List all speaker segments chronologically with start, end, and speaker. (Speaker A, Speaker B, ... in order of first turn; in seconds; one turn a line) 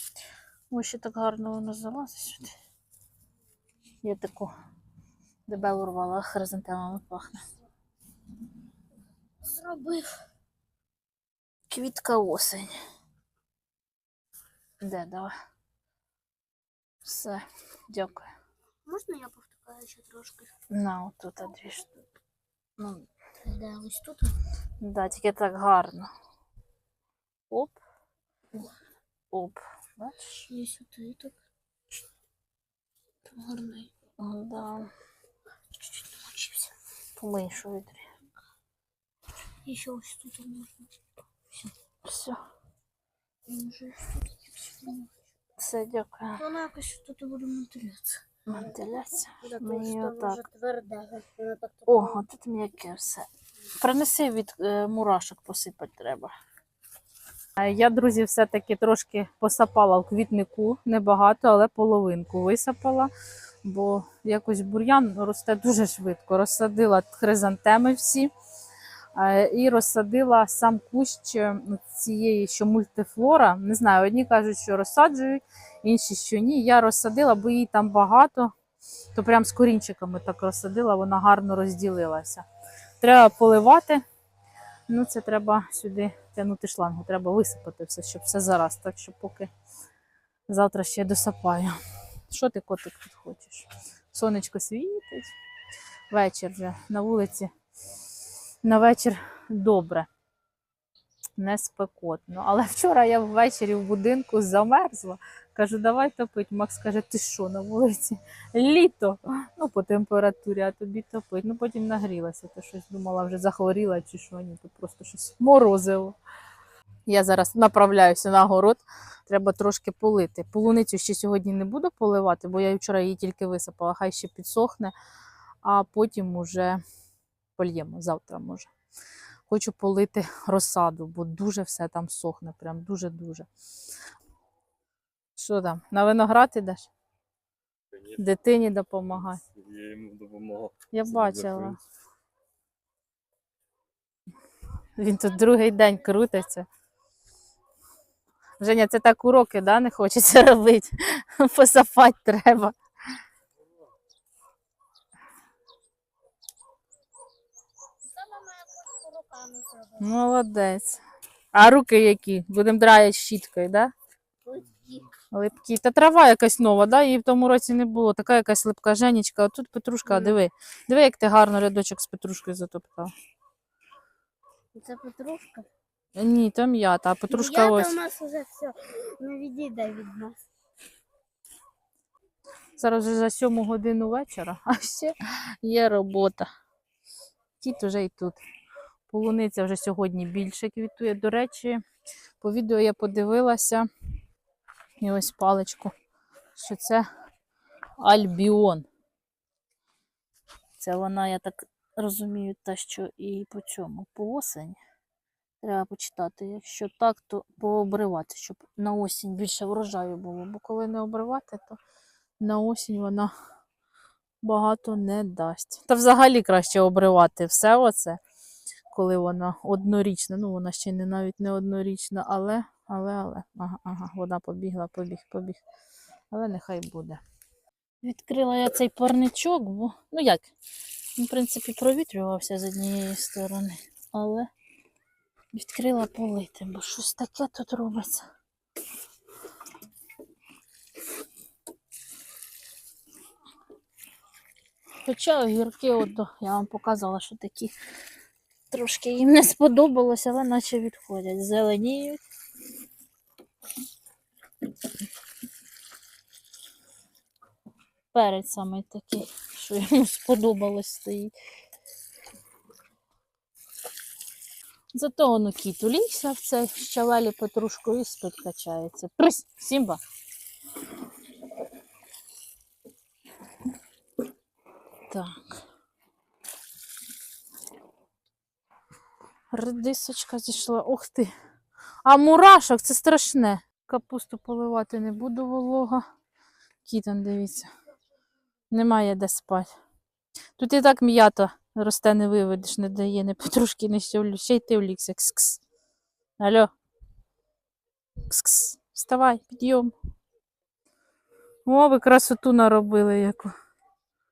Speaker A: 0.7-2.5
Speaker A: 4.0-4.5
Speaker A: 5.5-7.4
Speaker B: 9.4-10.2
Speaker A: 11.7-12.8
Speaker A: 14.8-15.3
Speaker A: 17.0-18.3
Speaker B: 18.9-20.5
Speaker A: 20.7-21.9
Speaker A: 22.8-23.0
Speaker B: 23.4-24.4
Speaker A: 24.8-26.1
Speaker A: 27.5-27.8
Speaker A: 29.3-30.4
Speaker B: 30.5-31.4
Speaker B: 33.3-33.9
Speaker A: 34.2-34.9
Speaker B: 35.9-36.7
Speaker A: 37.2-38.0
Speaker B: 39.6-40.9
Speaker A: 42.0-42.4
Speaker B: 43.5-45.1
Speaker A: 45.6-46.4
Speaker B: 46.4-48.8
Speaker A: 48.5-50.4
Speaker B: 49.4-52.2
Speaker A: 51.9-53.3
Speaker A: 53.8-56.3
Speaker A: 57.6-63.1
Speaker A: 63.6-68.3
Speaker A: 69.1-78.5
Speaker A: 79.1-82.5
Speaker A: 83.0-84.0
Speaker A: 84.9-89.5
Speaker A: 90.5-91.8
Speaker A: 92.3-95.3
Speaker A: 96.1-97.5
Speaker A: 98.6-100.1
Speaker A: 101.4-116.2
Speaker A: 117.1-124.9
Speaker A: 125.6-126.8
Speaker A: 127.6-128.7
Speaker A: 129.5-133.5
Speaker A: 135.3-136.9
Speaker A: 138.2-139.4
Speaker C: 139.5-141.8
Speaker A: 140.9-141.8
Speaker A: 145.0-146.7
Speaker A: 148.6-152.8
Speaker B: 158.1-160.1
Speaker A: 160.0-161.0
Speaker A: 161.5-163.9
Speaker B: 164.4-165.1
Speaker A: 165.3-173.1
Speaker B: 170.1-170.4
Speaker B: 174.7-175.7
Speaker A: 176.2-177.9
Speaker B: 177.3-180.4
Speaker A: 182.8-186.5
Speaker A: 187.6-188.4
Speaker A: 189.1-191.8
Speaker A: 192.4-193.9
Speaker A: 195.0-195.9
Speaker A: 196.6-197.0
Speaker A: 198.0-198.8
Speaker A: 200.8-204.8
Speaker A: 205.6-211.8
Speaker A: 212.4-213.3
Speaker A: 214.4-218.2
Speaker A: 218.9-225.6
Speaker A: 226.3-227.2
Speaker A: 228.0-230.5
Speaker A: 231.2-234.5
Speaker A: 235.5-238.2
Speaker A: 245.0-247.7
Speaker A: 248.7-252.2
Speaker A: 258.1-261.3
Speaker A: 264.9-270.0
Speaker A: 275.1-275.4
Speaker A: 279.5-281.3
Speaker A: 282.0-286.0
Speaker A: 286.8-287.7
Speaker A: 288.7-289.7
Speaker A: 290.6-295.6
Speaker A: 296.4-296.7
Speaker A: 298.3-299.9
Speaker A: 301.6-303.5